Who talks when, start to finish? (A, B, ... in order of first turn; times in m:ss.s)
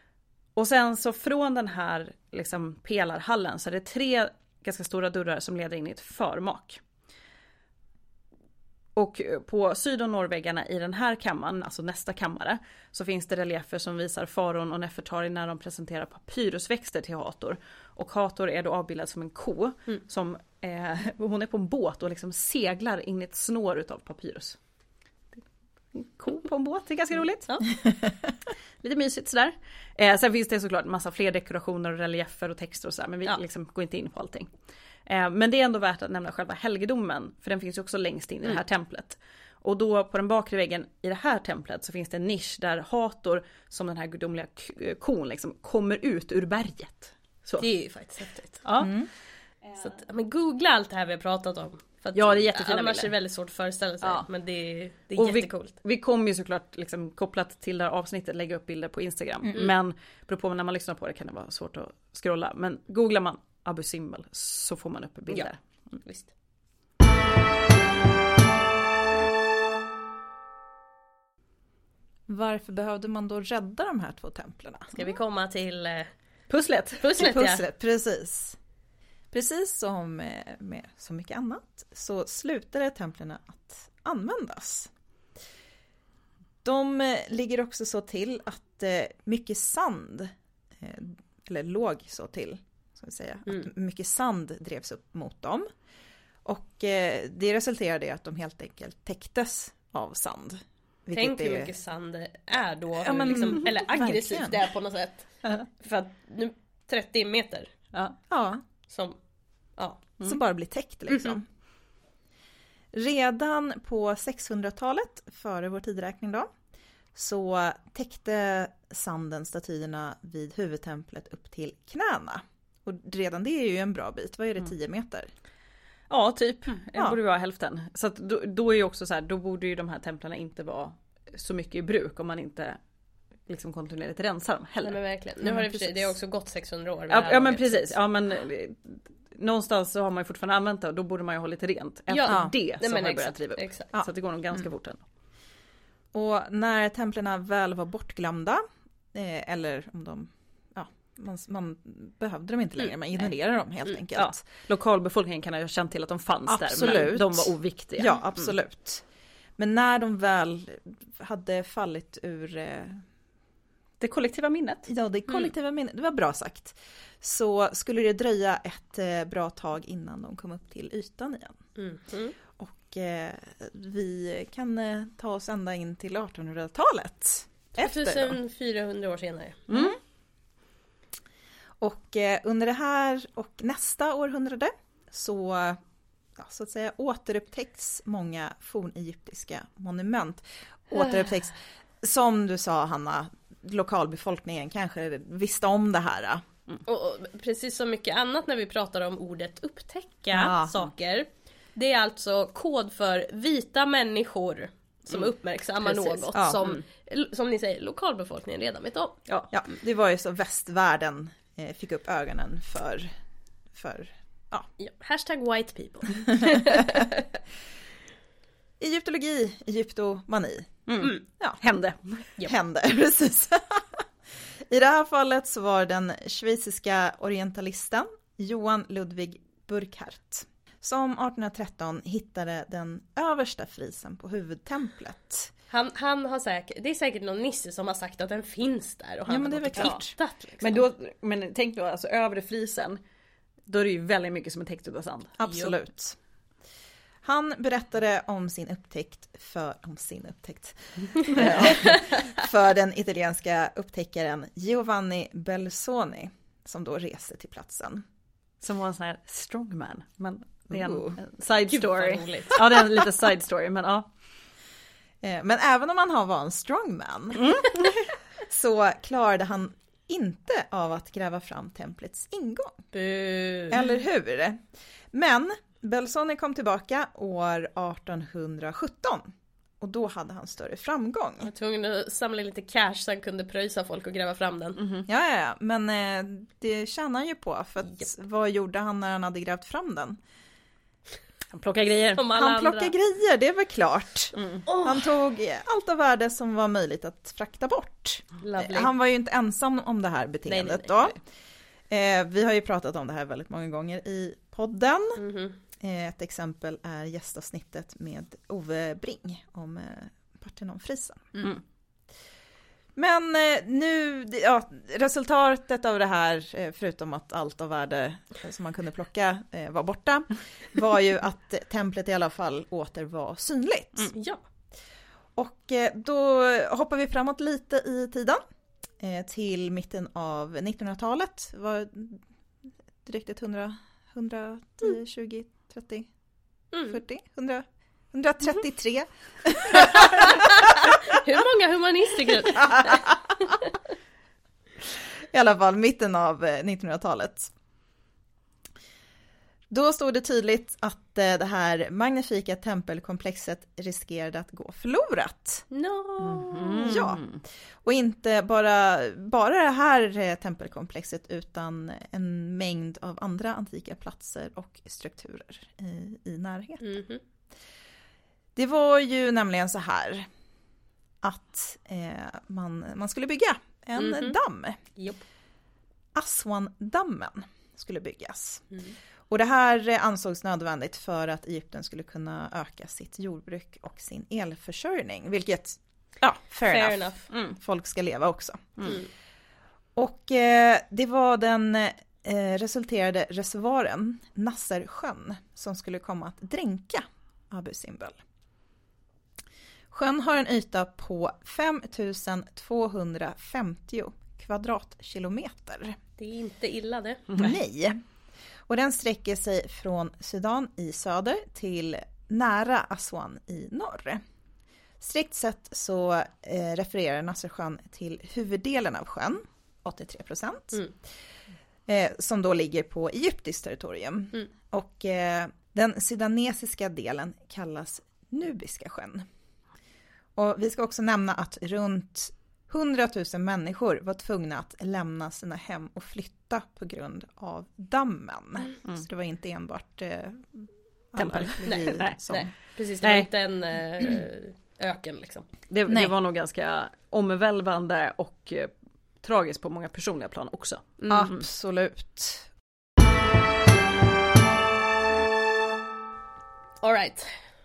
0:00.6-0:06.8 A
0:08.9-0:24.6 A
0:25.9-0:27.7 A
0:28.8-0:34.5 A
0:35.0-0:47.7 A
0:47.6-0:48.6 B
0:48.6-0:48.9 A
0:48.8-0:49.1 C
0:49.8-0:55.7 B
0:52.1-0:53.1 A
0:55.2-1:05.6 A
1:06.0-1:06.3 B
1:12.3-1:14.9 C
1:14.9-1:16.1 B
1:16.5-1:17.2 A
1:17.0-1:17.6 B
1:17.2-1:18.6 C
1:19.3-1:24.9 C
1:26.6-1:35.7 C
1:36.4-1:41.7 C
1:41.1-1:47.7 B
1:43.0-1:44.6 C
1:48.3-1:48.6 C
1:48.9-1:49.2 B
1:49.8-1:50.1 B
1:50.2-1:51.4 C
1:51.1-1:51.4 B
1:52.9-1:56.5 C
1:57.1-2:05.3 C
2:06.1-2:12.8 A
2:13.5-2:15.0 A
2:14.8-2:17.9 B
2:15.4-2:16.0 C
2:17.1-2:25.0 A
2:22.1-2:23.9 B
2:22.3-2:22.5 C
2:26.1-2:28.6 C
2:29.1-2:34.4 C
2:34.1-2:38.5 A
2:36.5-2:39.0 C
2:39.6-2:43.0 C
2:44.0-2:44.9 A
2:44.9-2:51.6 C
2:51.8-2:52.3 B
2:52.6-2:58.3 C
2:57.8-2:59.7 B
2:59.7-3:00.0 A
2:59.7-3:00.0 C
3:01.8-3:05.8 C
3:06.4-3:16.4 C
3:16.8-3:29.2 B
3:20.3-3:20.9 C
3:25.8-3:26.8 A
3:26.3-3:26.6 C
3:29.5-3:33.1 C
3:33.7-3:34.7 C
3:34.8-3:37.2 B
3:38.8-3:41.6 C
3:40.9-3:42.2 A
3:42.4-3:44.0 C
3:44.7-3:55.5 C
3:55.7-4:00.8 B
3:59.3-4:00.1 C
4:00.6-4:03.0 A
4:03.7-4:05.4 A
4:05.4-4:06.2 C
4:07.2-4:18.0 C
4:11.3-4:11.9 A
4:18.6-4:24.1 A
4:20.7-4:21.1 C
4:21.7-4:22.6 B
4:25.2-4:27.6 C
4:27.4-4:28.1 A
4:28.4-4:32.8 C
4:32.9-4:33.8 B
4:33.7-4:41.5 C
4:41.4-4:44.8 B
4:44.8-4:45.0 A
4:45.1-4:50.2 C
4:51.5-4:52.2 A
4:52.2-4:52.9 B
4:52.3-5:01.2 C
4:54.4-4:54.6 A
4:54.6-4:55.0 B
4:58.4-4:58.9 B
5:00.5-5:01.1 B
5:01.9-5:05.2 C
5:05.2-5:05.6 B
5:05.8-5:11.5 C
5:13.0-5:24.1 C
5:24.1-5:24.4 B
5:25.4-5:28.4 C
5:29.0-5:32.2 C
5:33.0-5:36.1 C
5:36.8-5:40.7 C
5:39.7-5:43.1 B
5:42.5-5:43.2 C
5:45.3-5:47.5 C
5:49.7-5:55.6 C
5:55.7-5:57.0 B
5:56.3-5:57.2 C
5:56.5-5:57.4 A
5:57.8-6:07.0 C
6:06.8-6:07.2 B
6:08.6-6:10.3 C
6:11.2-6:14.8 C
6:14.0-6:14.4 B
6:15.0-6:15.2 B
6:16.1-6:18.7 C
6:19.3-6:29.0 C
6:26.7-6:27.3 B
6:27.3-6:27.6 A
6:30.0-6:38.2 C
6:39.9-6:46.0 C
6:46.2-6:47.2 B
6:47.3-6:48.0 C
6:48.7-6:54.2 C
6:55.0-7:00.9 C
7:01.9-7:09.2 C
7:10.4-7:22.5 C
7:21.2-7:22.5 A
7:21.6-7:25.5 B
7:23.0-7:23.3 A
7:25.7-7:31.4 A
7:25.9-7:26.1 C
7:31.0-7:31.3 B
7:31.1-7:32.5 C
7:36.8-7:37.4 B